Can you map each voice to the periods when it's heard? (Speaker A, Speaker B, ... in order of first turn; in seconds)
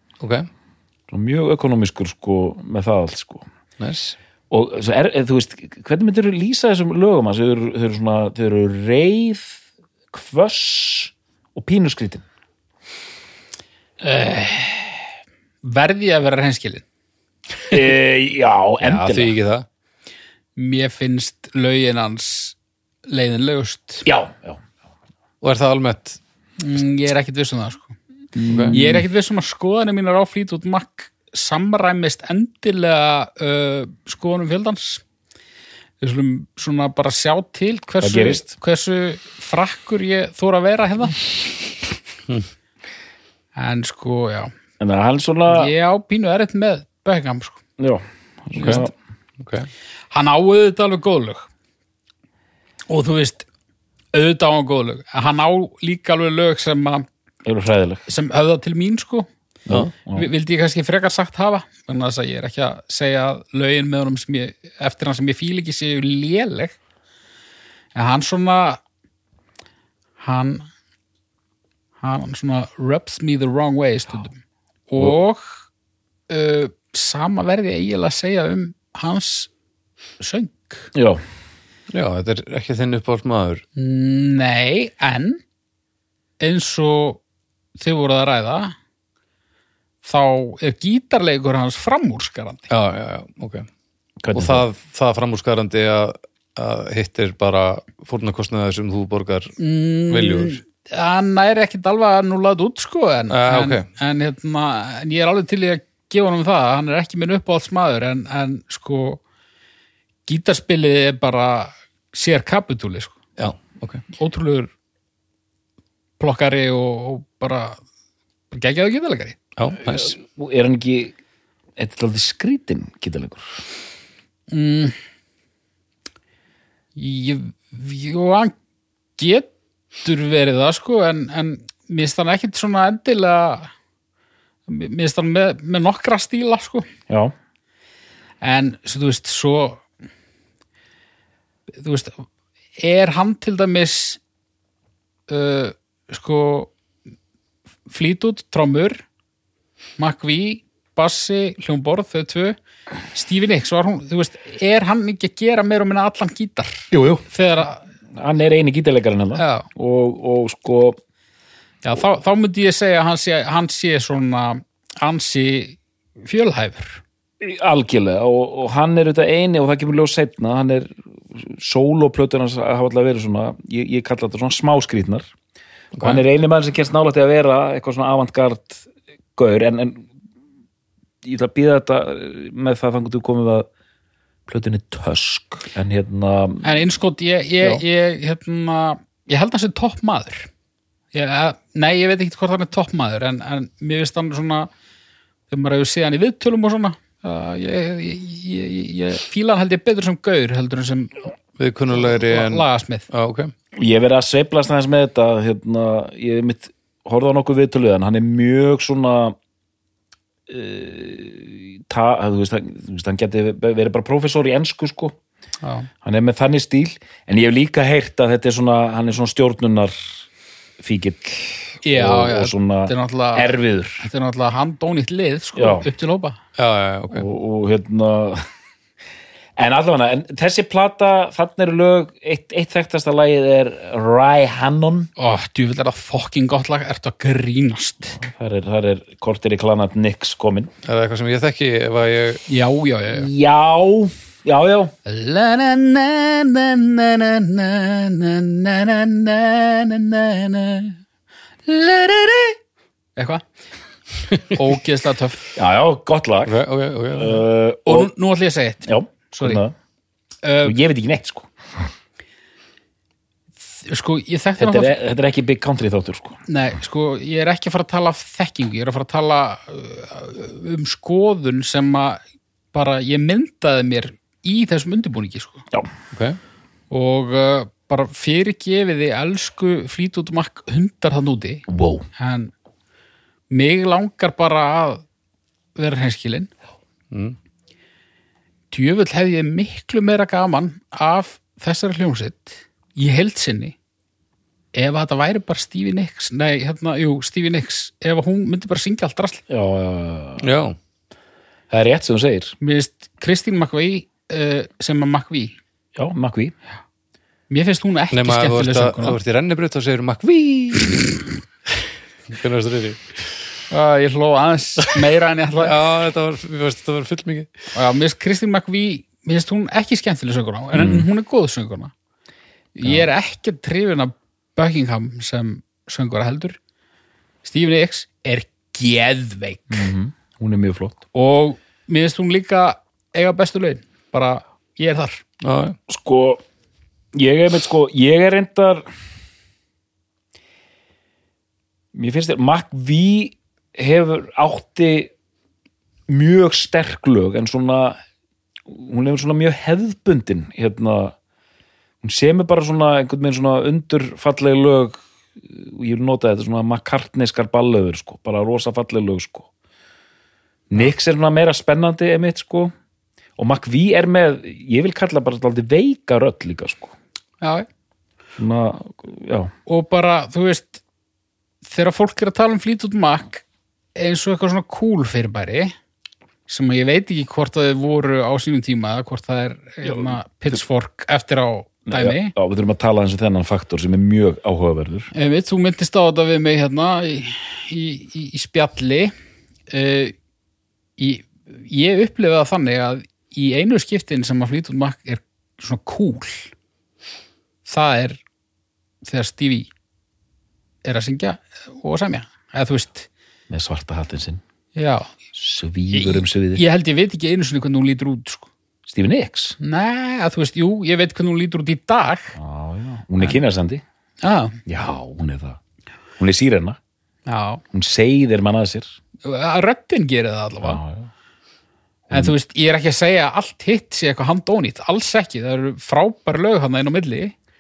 Speaker A: 0.2-0.5, 3.8-4.2, 18.8-19.7, 25.4-26.2, 28.5-28.8, 48.6-48.8, 49.4-49.7, 81.9-83.6, 92.7-93.7, 94.3-99.5, 100.1-100.6, 103.3-103.9, 113.4-114.0, 119.6-120.1, 175.9-176.2, 201.6-203.5, 226.6-227.3, 240.8-242.4, 254.3-254.6, 256.5-257.4, 276.1-276.4, 287.1-287.4, 300.4-300.8, 308.1-311.2, 312.3-313.2, 315.6-317.5, 335.4-335.8
Speaker B: 1.1-3.5, 4.5-9.6, 10.1-12.2, 17.7-19.3, 24.0-24.6, 28.4-29.1, 38.0-38.4, 44.8-45.7, 47.8-48.9, 57.5-58.0, 59.7-60.3, 81.0-81.2, 94.2-94.6, 119.8-121.1, 121.8-123.5, 137.1-137.3, 156.9-157.2, 158.2-161.0, 167.4-175.3, 176.0-180.1, 181.2-183.7, 184.5-186.8, 203.8-209.4, 210.5-215.2, 216.0-220.1, 220.8-224.1, 225.6-225.9, 227.1-228.4, 229.6-235.1, 238.2-240.7, 243.1-244.9, 255.6-256.6, 257.1-258.1, 258.9-259.7, 260.6-261.5, 264.6-266.4, 281.7-282.1, 299.5-300.4, 301.7-302.6, 306.0-306.5, 320.7-321.1, 329.7-331.0, 335.9-336.4, 337.1-338.9, 341.9-345.1, 346.1-348.0, 348.7-351.1, 352.0-359.5, 360.7-362.7, 363.4-366.9, 368.4-369.5, 379.9-380.1, 381.9-385.1, 403.5-404.4, 405.3-406.6, 408.9-409.6, 412.4-413.8, 414.7-415.6, 416.2-416.8, 417.7-418.9, 420.6-421.1
Speaker C: 14.0-15.0, 15.6-16.8, 20.6-22.6, 23.1-24.1, 26.6-28.0, 28.7-35.0, 36.0-41.2, 43.6-44.5, 45.5-47.6, 50.1-51.5, 52.9-53.5, 54.1-57.1, 58.1-59.3, 60.1-66.8, 68.0-68.8, 70.2-70.7, 72.0-74.4, 74.9-75.6, 76.3-79.5, 80.2-80.9, 83.8-85.4, 86.4-87.2, 87.8-88.8, 90.0-92.7, 99.6-109.2, 110.3-113.2, 114.1-114.7, 116.2-117.8, 118.5-119.4, 124.5-125.0, 127.0-128.5, 129.2-129.5, 130.0-133.7, 134.7-136.9, 138.4-139.8, 141.8-142.2, 142.8-144.2, 145.3-146.7, 147.9-149.0, 150.0-152.6, 153.1-157.8, 159.4-159.7, 161.8-167.0, 186.6-190.5, 191.1-194.7, 195.5-201.3, 201.9-203.1, 215.6-215.9, 221.8-226.4, 235.2-238.1, 242.5-243.3, 245.1-251.0, 251.7-252.6, 253.2-253.4, 254.5-255.5, 257.9-259.6, 260.4-260.8, 263.8-264.9, 266.5-272.2, 272.7-275.6, 276.9-281.6, 282.2-282.5, 283.5-285.0, 285.8-286.5, 288.7-293.8, 294.7-299.4, 302.6-305.6, 307.5-309.2, 313.7-315.8, 317.7-321.9, 322.8-326.6, 327.4-329.9, 331.1-335.2, 367.4-367.7, 369.7-370.8, 371.6-373.4, 373.9-375.7, 376.5-382.4, 385.1-389.1, 389.7-390.1, 391.0-396.5, 397.7-398.2, 399.0-399.7, 400.8-403.1, 404.7-405.1, 405.9-408.5, 409.6-412.4, 414.2-414.6, 417.3-417.6, 419.2-420.8, 422.1-427.3